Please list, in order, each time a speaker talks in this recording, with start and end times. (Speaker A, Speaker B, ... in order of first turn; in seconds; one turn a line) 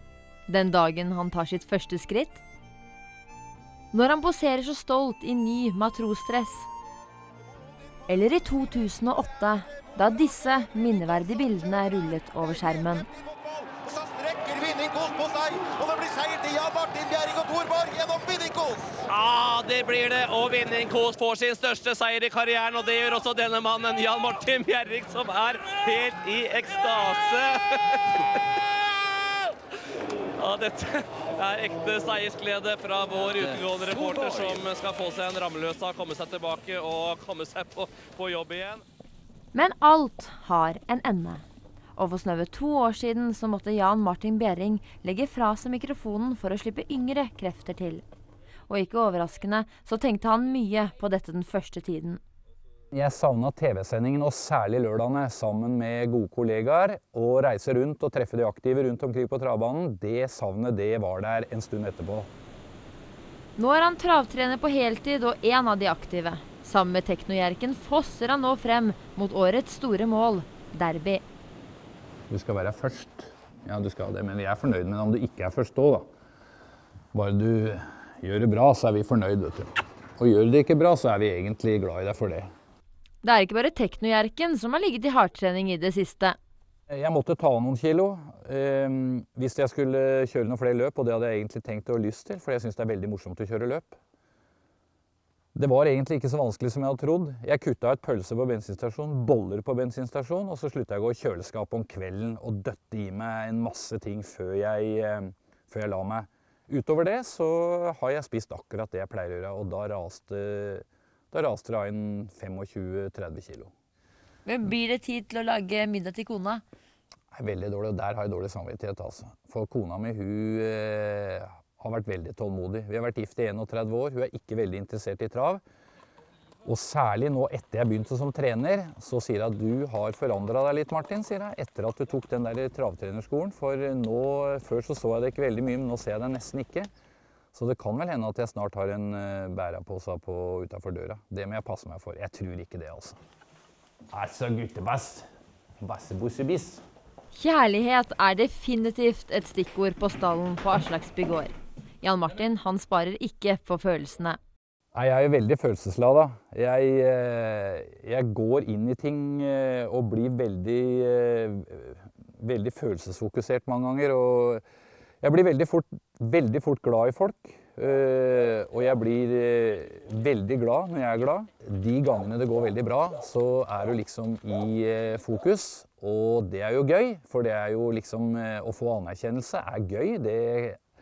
Speaker A: 0.5-2.4
Speaker A: 3.9-6.7
Speaker A: 8.1-13.1
Speaker B: 13.6-19.0
Speaker C: 19.1-28.4
Speaker C: 30.4-38.8
Speaker A: 39.5-41.4
Speaker A: 42.0-48.0
Speaker A: 48.7-52.2
Speaker D: 52.9-62.3
Speaker A: 63.6-71.2
Speaker D: 72.3-76.1
Speaker D: 77.1-82.5
Speaker A: 83.2-86.4
Speaker D: 86.9-94.0
Speaker D: 95.5-113.7
Speaker A: 114.5-116.6
Speaker D: 117.3-125.6
Speaker D: 126.6-136.9
Speaker D: 137.5-143.2
Speaker D: 144.1-145.2
Speaker D: 145.8-146.8
Speaker A: 147.3-154.4
Speaker D: 154.9-164.6
Speaker D: 165.2-180.8